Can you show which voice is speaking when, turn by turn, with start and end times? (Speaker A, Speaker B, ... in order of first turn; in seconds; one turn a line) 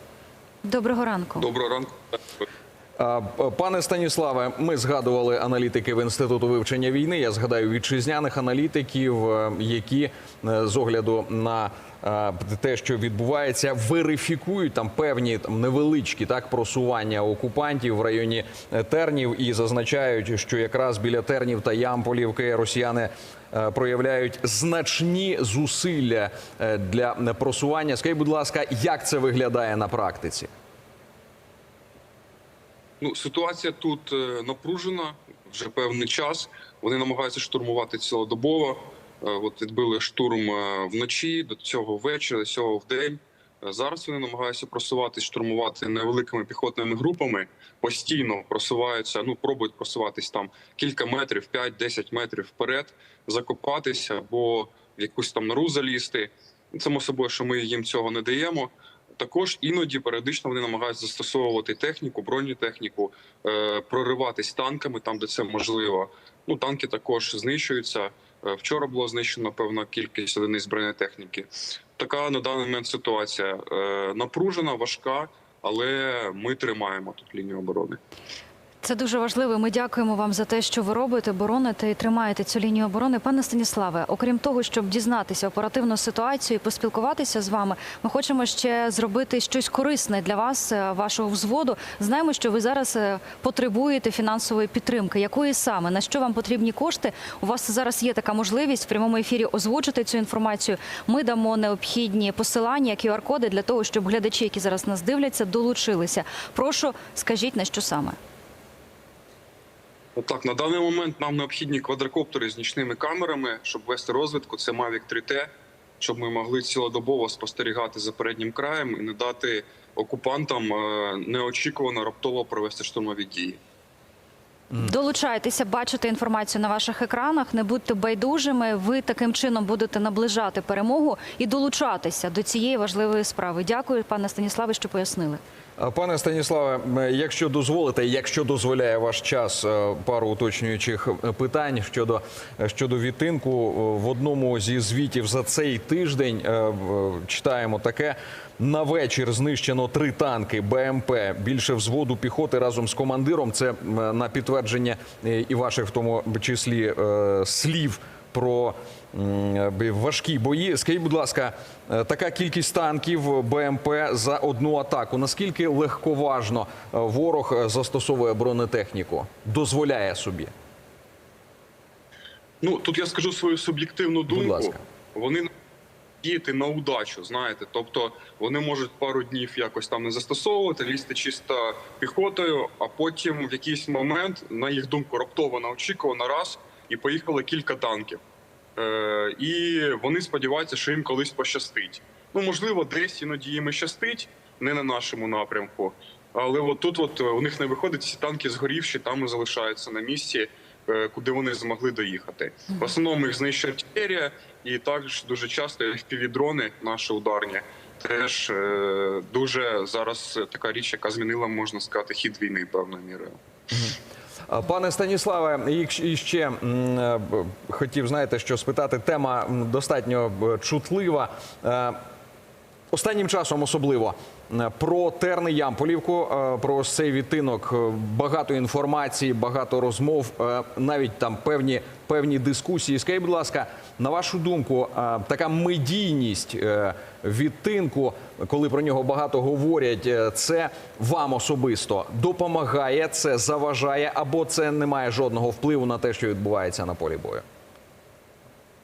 Speaker A: 0.6-1.5
Speaker B: 1.4-2.0
Speaker C: 3.0-30.5
Speaker B: 33.0-78.0
Speaker A: 78.8-108.2
Speaker B: 110.2-123.6
Speaker A: 124.8-135.4
Speaker C: 135.8-170.5
Speaker B: 172.6-175.5
Speaker C: 174.3-174.8
Speaker B: 176.2-188.2
Speaker B: 188.8-213.4
Speaker C: 214.5-222.0
Speaker C: 222.9-247.4